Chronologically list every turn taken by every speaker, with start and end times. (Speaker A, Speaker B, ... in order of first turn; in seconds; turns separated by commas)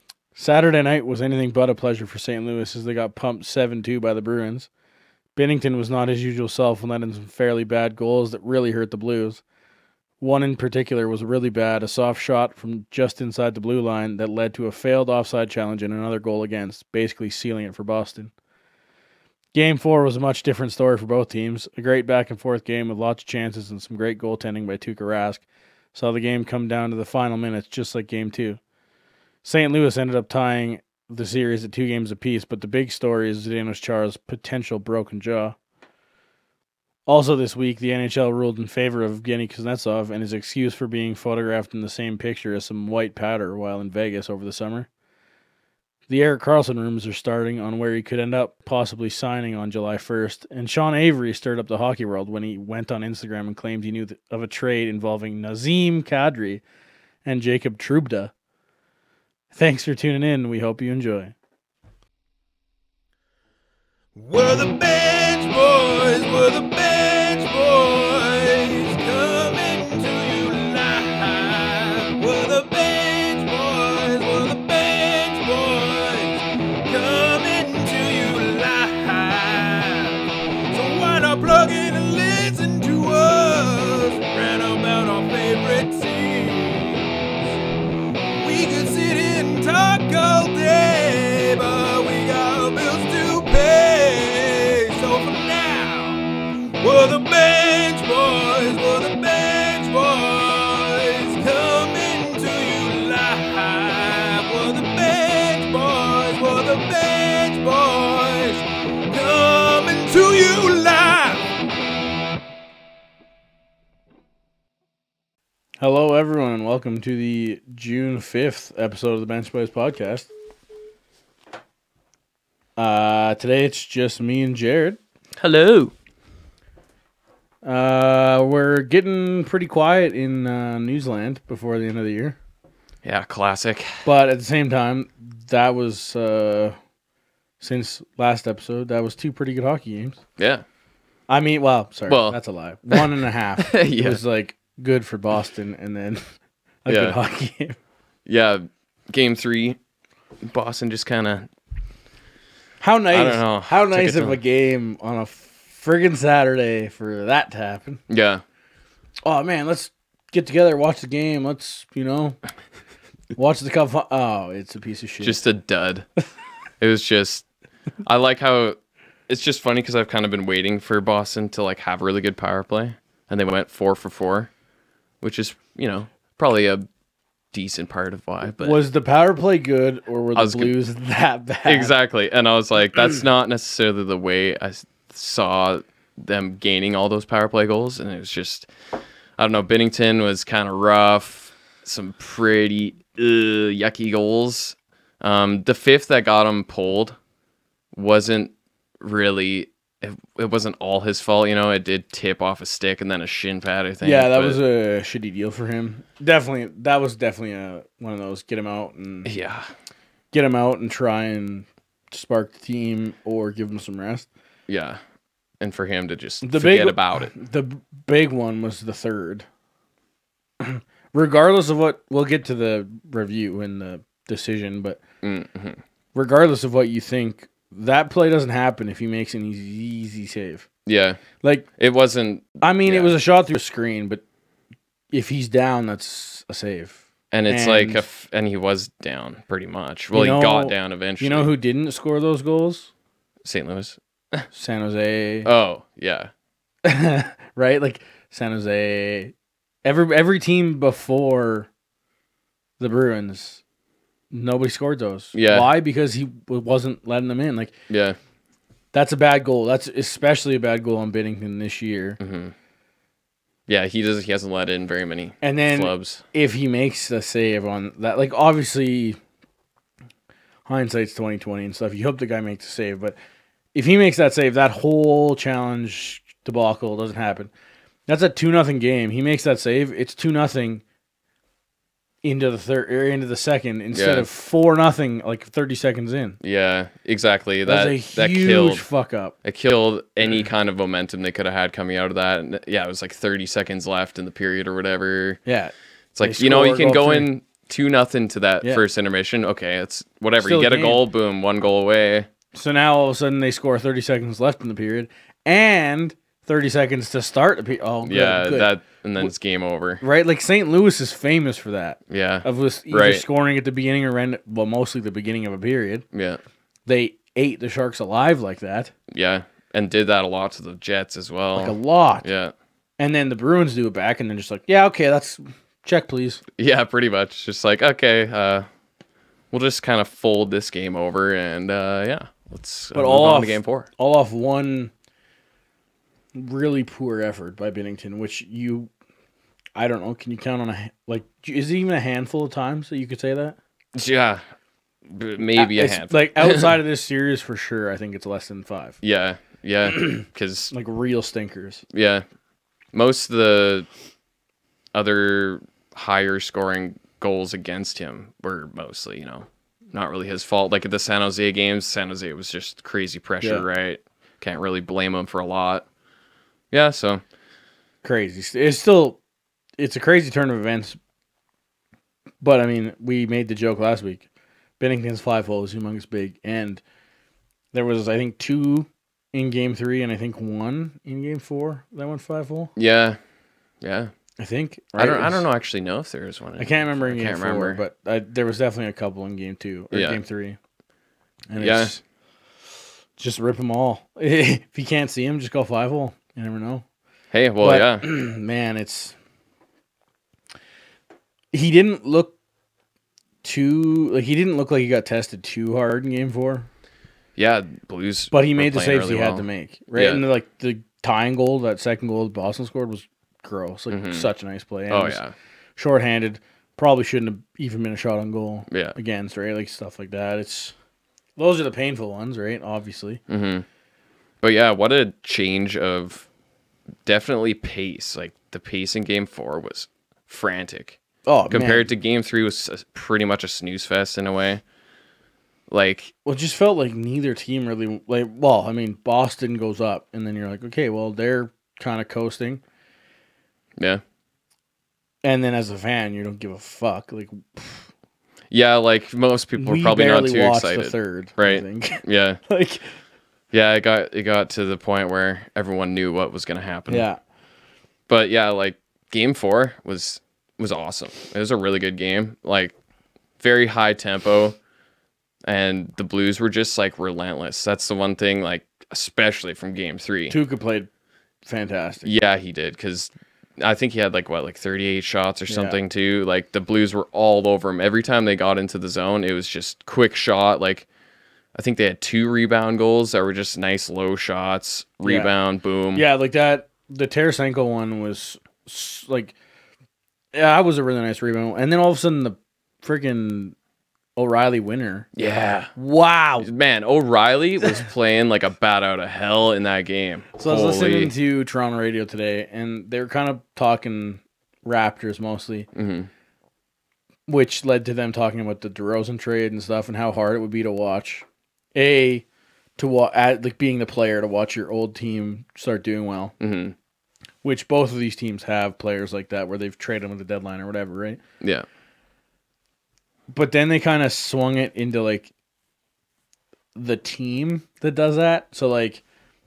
Speaker A: 0.3-4.7, Speaker A: 5.4-9.4, Speaker A: 10.2-18.3, Speaker A: 19.5-25.4, Speaker A: 25.9-28.6, Speaker A: 29.4-35.6, Speaker A: 37.1-44.9, Speaker A: 46.1-56.6, Speaker A: 57.2-58.3, Speaker A: 59.5-61.4, Speaker B: 64.2-87.0, Speaker B: 88.4-96.2, Speaker B: 96.8-111.5, Speaker A: 115.8-120.3, Speaker A: 122.8-125.0, Speaker C: 125.4-125.9, Speaker A: 127.6-132.4, Speaker C: 133.0-134.0, Speaker A: 134.1-136.8, Speaker A: 137.6-140.2, Speaker C: 140.4-140.6, Speaker A: 141.3-146.2, Speaker C: 142.1-142.4, Speaker C: 142.9-144.2, Speaker A: 146.8-147.8, Speaker C: 146.9-147.2, Speaker C: 148.3-149.8, Speaker C: 150.4-151.5, Speaker A: 152.8-158.0, Speaker C: 153.1-154.4, Speaker C: 158.1-158.4, Speaker A: 159.2-162.4, Speaker A: 163.3-165.4, Speaker C: 165.2-166.1, Speaker C: 166.8-167.5, Speaker C: 168.0-168.8, Speaker C: 169.3-174.5, Speaker C: 175.2-176.9, Speaker C: 177.5-178.8, Speaker A: 178.6-181.9, Speaker C: 180.4-180.7, Speaker C: 181.7-188.7, Speaker C: 189.4-197.2, Speaker C: 197.9-204.6, Speaker A: 204.0-209.3, Speaker C: 209.2-209.7, Speaker A: 210.3-214.3, Speaker C: 214.7-215.0, Speaker C: 215.6-217.3, Speaker A: 216.4-219.5, Speaker A: 220.6-225.0, Speaker C: 225.2-225.8, Speaker A: 226.2-230.7, Speaker C: 230.9-231.2, Speaker A: 231.4-231.7, Speaker C: 231.8-233.1, Speaker A: 232.6-234.2, Speaker A: 235.1-238.1, Speaker C: 237.3-241.5, Speaker A: 240.1-242.9, Speaker C: 243.4-244.4, Speaker A: 244.5-245.5, Speaker C: 245.4-246.3, Speaker A: 246.8-251.7, Speaker A: 252.8-253.6, Speaker A: 254.3-257.8, Speaker C: 255.3-255.7, Speaker C: 257.9-258.2, Speaker A: 258.9-262.2, Speaker C: 262.2-262.5, Speaker C: 263.7-266.2, Speaker A: 265.4-269.2, Speaker A: 270.7-273.2, Speaker A: 273.7-277.5, Speaker A: 278.1-280.8, Speaker A: 282.2-286.4, Speaker C: 283.9-284.3, Speaker C: 286.4-288.9, Speaker A: 287.6-289.4, Speaker C: 289.4-295.4, Speaker A: 295.5-297.3, Speaker C: 296.1-302.3, Speaker A: 300.4-301.0, Speaker A: 302.5-309.3, Speaker C: 308.0-310.0, Speaker A: 310.0-316.1, Speaker C: 312.1-313.2, Speaker C: 316.1-316.4, Speaker A: 316.9-318.9, Speaker C: 319.1-322.5, Speaker A: 321.6-322.3, Speaker A: 323.0-326.4, Speaker C: 326.6-328.7, Speaker C: 329.5-333.9, Speaker A: 332.9-334.9, Speaker A: 336.3-338.9, Speaker A: 339.8-343.6, Speaker C: 343.9-344.4, Speaker C: 345.1-346.8, Speaker A: 345.5-349.0, Speaker C: 349.0-350.7, Speaker A: 350.7-351.8, Speaker C: 351.9-352.2, Speaker C: 352.9-353.9, Speaker C: 354.9-365.9, Speaker A: 363.4-363.7, Speaker C: 366.7-367.2, Speaker A: 368.0-369.2, Speaker A: 369.8-371.0, Speaker A: 372.4-374.3, Speaker A: 374.8-376.8, Speaker A: 377.7-382.7, Speaker C: 382.8-383.2, Speaker C: 383.8-384.1, Speaker A: 384.4-385.4, Speaker C: 385.0-387.8, Speaker A: 386.6-390.6, Speaker C: 389.9-390.2, Speaker A: 391.5-392.0, Speaker C: 391.6-391.9, Speaker A: 393.2-396.9, Speaker C: 397.3-398.1, Speaker A: 397.6-399.1, Speaker A: 401.5-402.4, Speaker A: 403.4-406.7, Speaker C: 407.4-410.2, Speaker A: 408.3-415.2, Speaker C: 413.9-414.3, Speaker C: 414.9-415.3, Speaker A: 415.8-420.7, Speaker C: 418.7-419.0, Speaker A: 421.4-423.2, Speaker C: 423.3-423.6, Speaker C: 424.4-426.3, Speaker C: 427.1-431.0, Speaker A: 431.3-431.9, Speaker C: 431.5-434.6, Speaker C: 435.7-436.1, Speaker A: 436.2-442.6, Speaker A: 445.2-447.9, Speaker C: 448.5-452.4, Speaker A: 449.6-452.9, Speaker C: 453.5-457.1, Speaker A: 456.9-457.2, Speaker C: 458.1-462.8, Speaker C: 463.4-464.6, Speaker C: 465.5-470.4, Speaker A: 470.3-470.9, Speaker A: 471.4-472.1, Speaker C: 472.0-480.9, Speaker A: 475.5-475.8, Speaker C: 481.6-486.1, Speaker A: 485.0-485.3, Speaker A: 485.9-489.4, Speaker A: 490.3-493.6, Speaker A: 494.2-495.1, Speaker C: 495.1-495.7, Speaker A: 495.8-496.5, Speaker C: 496.4-501.1, Speaker A: 500.4-505.7, Speaker C: 505.7-506.1, Speaker A: 507.3-512.2, Speaker A: 512.8-516.4, Speaker C: 516.4-516.8, Speaker A: 517.4-521.2, Speaker C: 521.4-521.7, Speaker A: 523.3-525.3, Speaker A: 526.8-529.0